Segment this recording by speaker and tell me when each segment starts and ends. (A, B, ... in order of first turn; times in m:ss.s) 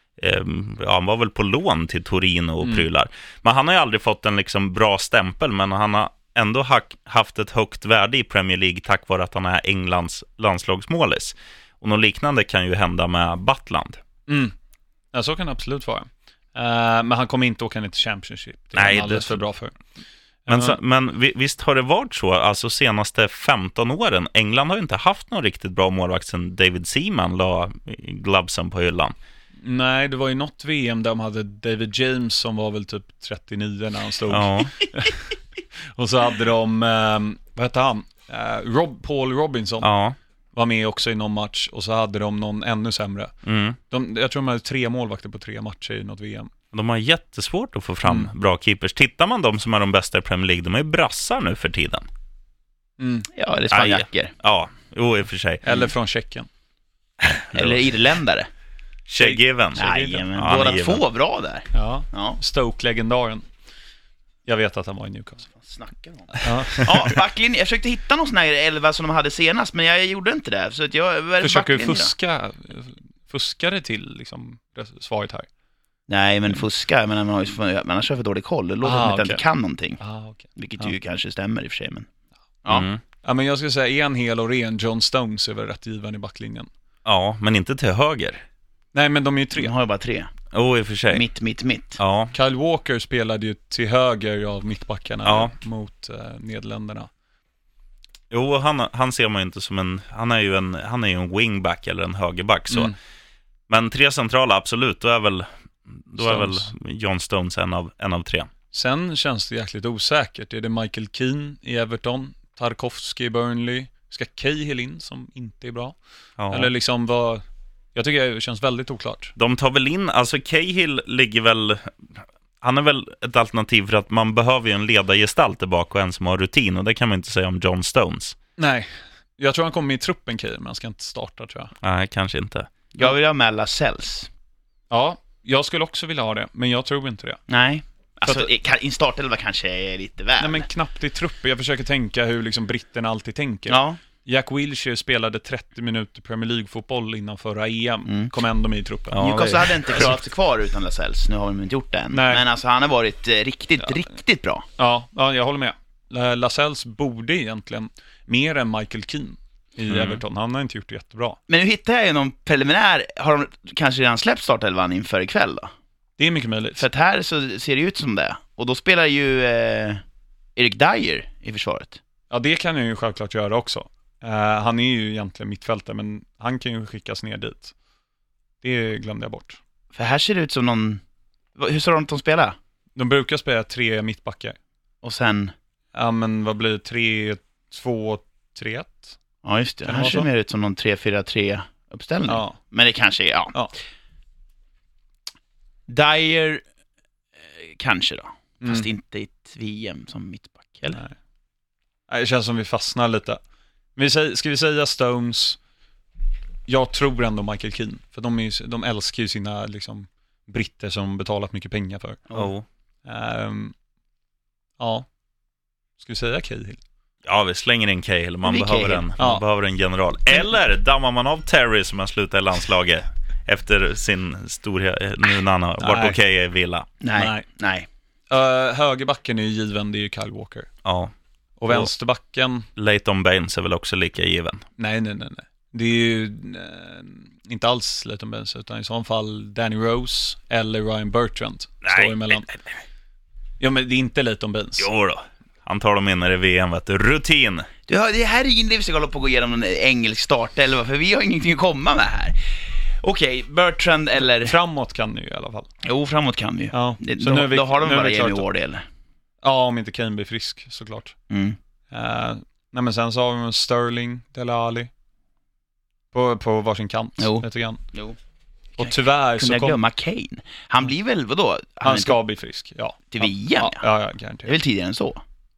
0:00.2-0:14.0 A
0:14.3-0:14.6 B
0:15.1-0:19.8 B
0:18.8-0:19.4 A
0:20.5-0:20.8 B
0:20.5-0:29.1 A
0:29.6-0:35.3 B
0:34.3-0:34.7 A
0:35.9-0:39.9 B
0:39.8-0:40.2 A
0:40.5-0:43.3 B
0:43.4-0:43.8 A
0:43.9-0:46.5 B
0:46.7-0:52.1 A
0:48.0-0:48.3 B
0:53.0-0:53.3 B
0:53.3-0:54.3 C
0:53.7-0:55.6 A
0:55.6-0:56.5 B
0:57.2-0:57.8 A
0:57.5-0:58.5 C
0:59.1-1:01.0 A
0:59.2-1:00.2 B
0:59.8-1:02.4 C
1:01.7-1:03.4 B
1:04.5-1:05.5 B
1:05.5-1:12.1 C
1:06.4-1:07.1 B
1:11.4-1:15.5 B
1:16.1-1:20.0 C
1:18.8-1:19.4 B
1:20.0-1:20.9 B
1:20.6-1:22.1 C
1:22.7-1:23.0 A
1:23.2-1:26.7 B
1:27.0-1:28.4 A
1:29.0-1:29.7 B
1:29.6-1:30.3 C
1:30.5-1:31.2 A
1:31.1-1:32.0 C
1:32.0-1:32.3 A
1:32.3-1:37.1 B
1:35.2-1:35.5 A
1:38.3-1:42.9 A
1:42.7-1:43.0 B
1:43.7-1:45.5 A
1:46.0-1:48.5 A
1:46.2-1:46.7 B
1:48.7-1:56.0 B
1:56.4-1:56.7 A
1:56.5-1:57.4 B
1:58.0-1:59.4 B
1:59.4-2:01.9 A
2:02.6-2:08.4 A
2:08.6-2:11.7 B
2:11.8-2:12.7 A
2:13.0-2:14.3 C
2:14.9-2:17.4 B
2:17.5-2:20.7 C
2:20.4-2:29.2 B
2:23.7-2:24.0 C
2:28.1-2:28.3 C
2:29.1-2:29.8 A
2:29.2-2:34.6 C
2:32.1-2:32.4 B
2:34.8-2:41.4 B
2:39.9-2:40.2 A
2:41.5-2:45.7 C
2:46.2-2:46.9 B
2:46.8-2:50.0 C
2:50.6-2:52.0 C
2:52.3-2:57.7 B
2:58.6-2:59.6 B
2:59.9-3:01.0 C
3:01.6-3:02.6 C
3:03.0-3:04.6 B
3:05.0-3:05.5 C
3:05.9-3:09.2 B
3:09.4-3:13.6 C
3:09.9-3:10.3 B
3:12.3-3:12.6 B
3:15.9-3:16.6 C
3:17.4-3:21.0 C
3:18.6-3:18.9 B
3:22.1-3:23.4 B
3:24.0-3:25.6 B
3:26.7-3:32.4 B
3:32.3-3:32.6 A
3:33.1-3:33.7 B
3:34.8-3:35.1 B
3:36.0-3:36.8 B
3:37.2-3:46.9 A
3:38.4-3:39.1 C
3:45.8-3:46.2 B
3:47.0-3:47.9 C
3:47.2-3:47.4 B
3:48.3-3:50.7 B
3:50.8-3:51.1 A
3:51.6-3:52.7 B
3:52.8-3:54.6 A
3:54.8-4:02.5 B
4:01.8-4:02.6 A
4:03.6-4:04.9 B
4:04.8-4:07.7 A
4:07.9-4:14.6 C
4:14.2-4:15.7 B
4:15.8-4:18.8 C
4:16.7-4:18.4 B
4:19.4-4:21.2 B
4:21.3-4:21.6 C
4:21.9-4:24.9 B
4:26.1-4:27.8 B
4:27.2-4:28.2 C
4:28.8-4:29.8 B
4:28.8-4:32.2 C
4:31.8-4:34.6 B
4:33.1-4:33.8 C
4:34.4-4:35.2 C